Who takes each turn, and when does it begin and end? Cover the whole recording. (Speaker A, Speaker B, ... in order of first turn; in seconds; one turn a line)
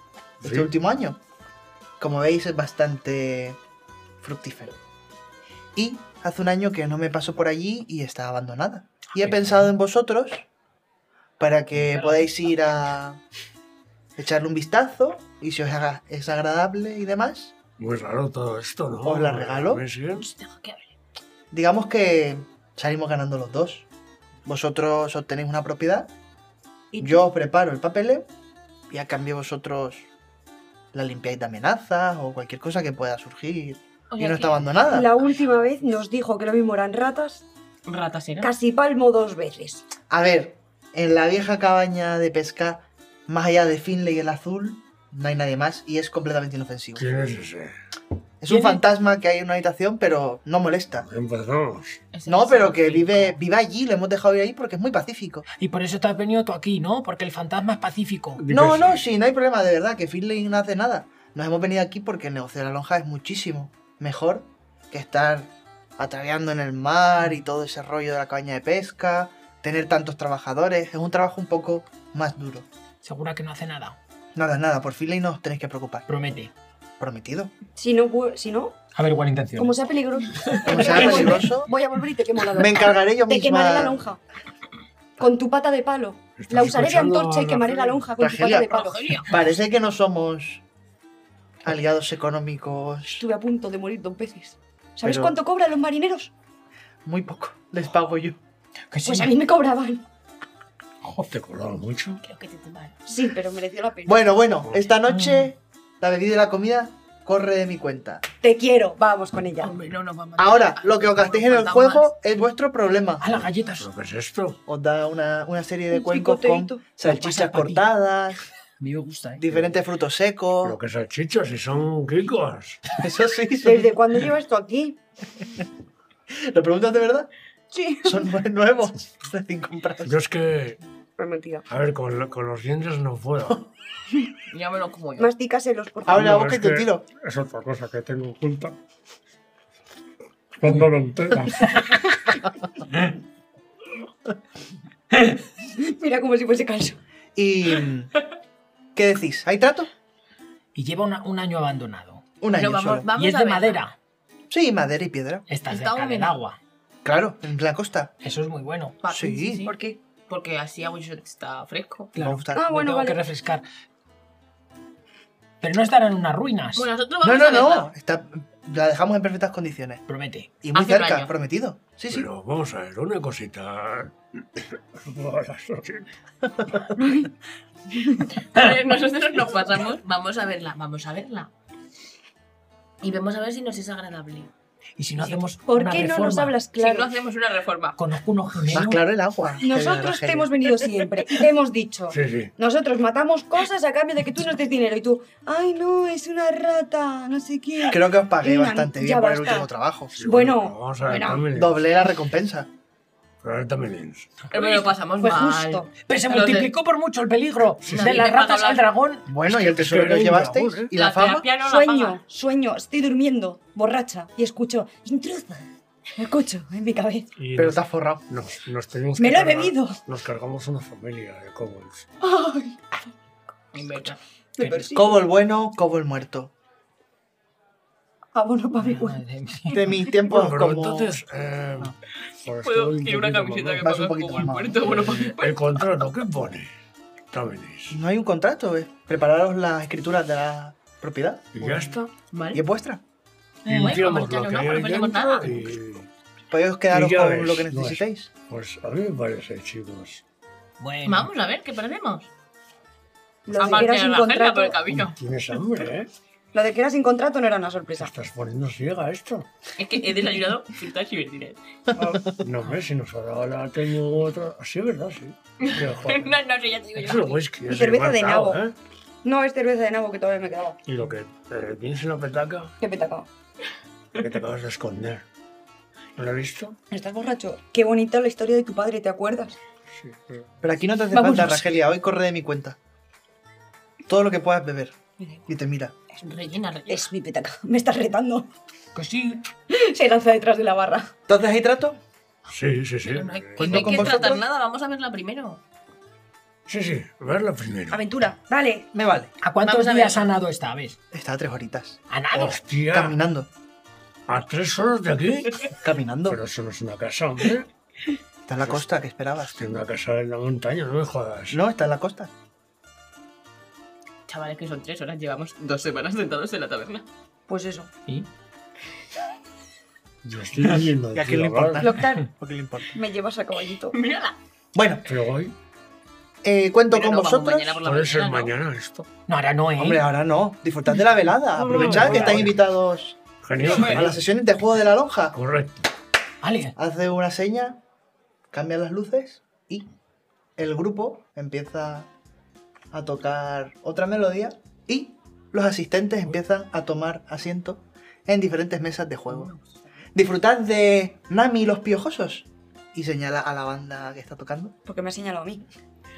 Speaker A: 0.4-1.2
Speaker B: 0.4-0.7
Speaker A: 2.0-3.6
Speaker A: 4.2-4.8
Speaker A: 5.7-10.4
Speaker A: 11.4-13.2
Speaker A: 14.2-17.6
Speaker B: 17.8-20.3
Speaker A: 19.0-19.8
Speaker C: 20.1-20.9
Speaker A: 21.5-23.9
Speaker A: 24.4-26.1
Speaker D: 26.9-27.2
Speaker A: 27.0-28.3
Speaker A: 28.9-30.1
Speaker A: 30.9-35.1
Speaker C: 34.1-35.6
Speaker D: 34.9-37.4
Speaker C: 37.9-38.5
Speaker D: 38.4-39.8
Speaker A: 40.1-47.1
Speaker B: 47.0-47.7
Speaker A: 48.4-51.0
Speaker B: 51.0-52.0
Speaker C: 52.1-53.4
Speaker A: 52.2-55.5
Speaker E: 55.6-58.4
Speaker B: 58.4-59.0
Speaker A: 58.5-72.7
Speaker E: 73.0-74.0
Speaker A: 74.3-76.1
Speaker E: 76.1-76.5
Speaker A: 77.0-77.5
Speaker D: 77.8-78.8
Speaker E: 78.9-79.8
Speaker D: 79.6-84.2
Speaker A: 80.6-81.7
Speaker A: 82.5-84.0
Speaker D: 85.2-89.2
Speaker B: 86.4-88.0
Speaker A: 88.2-90.6
Speaker C: 88.7-89.4
Speaker A: 91.6-93.2
Speaker D: 93.2-96.3
Speaker A: 95.0-95.3
Speaker A: 97.0-98.4
Speaker E: 98.9-99.3
Speaker D: 99.0-100.0
Speaker B: 101.2-102.2
Speaker C: 102.2-103.0
Speaker D: 103.1-104.5
Speaker A: 104.0-108.2
Speaker E: 105.1-105.5
Speaker D: 108.4-109.7
Speaker C: 109.6-112.1
Speaker A: 110.4-113.3
Speaker E: 113.2-113.9
Speaker B: 113.8-114.6
Speaker A: 114.7-118.4
Speaker D: 115.9-116.8
Speaker E: 117.0-117.9
Speaker E: 118.8-119.7
Speaker A: 119.4-120.8
Speaker B: 120.6-122.9
Speaker A: 123.0-123.9
Speaker D: 123.6-125.0
Speaker A: 126.3-127.3
Speaker D: 127.7-128.3
Speaker A: 128.0-130.1
Speaker B: 130.0-130.8
Speaker D: 131.2-131.7
Speaker B: 131.7-133.7
Speaker C: 134.5-135.3
Speaker D: 135.2-136.3
Speaker A: 136.0-137.1
Speaker B: 136.1-138.8
Speaker B: 140.6-142.1
Speaker D: 145.7-147.0
Speaker A: 147.3-148.1
Speaker A: 148.9-149.9
Speaker E: 150.7-152.2
Speaker A: 152.4-153.1
Speaker C: 152.5-153.8
Speaker E: 153.1-153.9
Speaker A: 154.5-155.4
Speaker E: 155.5-156.6
Speaker C: 155.7-156.3
Speaker A: 157.0-158.1
Speaker E: 158.2-158.9
Speaker C: 159.0-159.8
Speaker A: 159.1-159.7
Speaker D: 159.7-160.0
Speaker C: 160.3-162.1
Speaker E: 162.1-163.6
Speaker A: 162.2-162.7
Speaker D: 162.5-163.2
Speaker E: 165.6-166.8
Speaker C: 166.7-167.9
Speaker A: 167.2-170.0
Speaker E: 170.1-170.5
Speaker A: 170.6-172.3
Speaker C: 170.7-171.3
Speaker B: 172.1-176.1
Speaker C: 178.5-181.5
Speaker C: 183.0-184.5
Speaker E: 185.0-186.6
Speaker D: 185.7-187.2
Speaker C: 186.8-188.0
Speaker E: 188.0-189.0
Speaker A: 188.7-190.7
Speaker D: 189.6-199.7
Speaker B: 192.1-192.5
Speaker A: 197.9-200.1
Speaker B: 200.1-201.8
Speaker D: 200.2-201.5
Speaker A: 201.5-202.7
Speaker B: 203.4-204.5
Speaker C: 204.5-206.7
Speaker D: 205.2-205.9
Speaker E: 206.1-209.3
Speaker B: 207.8-208.2
Speaker C: 207.8-208.9
Speaker A: 209.3-211.5
Speaker B: 209.4-210.9
Speaker C: 210.9-212.2
Speaker D: 211.6-217.3
Speaker B: 217.4-222.1
Speaker A: 217.6-218.2
Speaker D: 219.2-220.0
Speaker D: 222.2-223.1
Speaker C: 223.7-224.2
Speaker D: 224.0-225.2
Speaker E: 224.6-224.9
Speaker A: 224.9-226.5
Speaker D: 228.3-229.2
Speaker E: 228.8-229.8
Speaker A: 229.7-231.2
Speaker B: 230.1-236.7
Speaker C: 232.6-236.1
Speaker A: 233.8-234.8
Speaker B: 237.3-238.0
Speaker A: 237.9-241.9
Speaker B: 241.5-242.1
Speaker C: 242.3-242.6
Speaker A: 242.5-243.0
Speaker C: 243.6-245.7
Speaker B: 243.7-246.1
Speaker A: 246.5-248.3
Speaker B: 246.9-250.2
Speaker E: 250.8-251.3
Speaker C: 251.0-252.3
Speaker D: 253.4-254.8
Speaker C: 253.5-255.2
Speaker B: 254.9-256.1
Speaker D: 256.5-258.1
Speaker B: 257.9-259.5
Speaker C: 259.8-261.6
Speaker A: 261.9-262.4
Speaker B: 262.0-266.4
Speaker C: 265.6-267.4
Speaker B: 267.0-268.7
Speaker D: 267.6-268.6
Speaker D: 269.2-270.8
Speaker B: 270.9-272.7
Speaker D: 272.8-273.3
Speaker B: 274.1-275.2
Speaker B: 276.1-276.8
Speaker D: 276.9-279.6
Speaker B: 279.9-280.5
Speaker A: 280.6-282.8
Speaker D: 281.1-281.6
Speaker A: 284.1-285.9
Speaker C: 286.2-287.1
Speaker D: 286.9-288.5
Speaker E: 288.9-289.4
Speaker D: 289.7-291.1
Speaker A: 291.3-292.0
Speaker B: 292.5-294.2
Speaker C: 293.0-295.6
Speaker A: 293.6-294.4
Speaker B: 296.6-298.0
Speaker D: 297.9-298.9
Speaker A: 298.9-299.3
Speaker E: 299.4-301.0
Speaker C: 299.6-300.2
Speaker A: 301.1-302.0
Speaker E: 302.1-302.6
Speaker B: 302.3-303.2
Speaker A: 302.9-303.5
Speaker B: 304.3-305.7
Speaker A: 305.8-306.4
Speaker B: 306.3-307.7
Speaker A: 308.4-309.6
Speaker B: 309.5-311.6
Speaker A: 311.5-312.3
Speaker C: 314.3-317.1
Speaker D: 317.5-317.9
Speaker B: 320.2-322.1
Speaker A: 321.1-323.0
Speaker D: 321.8-322.2
Speaker D: 322.9-323.9
Speaker C: 323.9-324.4
Speaker A: 324.7-325.1
Speaker B: 325.1-325.5
Speaker A: 326.4-327.8
Speaker C: 326.9-328.5
Speaker B: 327.8-329.1
Speaker E: 329.3-330.0
Speaker A: 329.8-335.4
Speaker C: 331.6-332.1
Speaker B: 331.7-332.6
Speaker E: 331.7-332.4
Speaker B: 333.4-334.2
Speaker C: 333.7-334.0
Speaker B: 335.3-335.9
Speaker E: 336.4-336.8
Speaker A: 336.8-337.8
Speaker A: 338.5-339.9
Speaker A: 340.6-342.1
Speaker A: 342.9-349.5
Speaker C: 349.3-349.8
Speaker A: 350.1-354.7
Speaker D: 354.9-355.7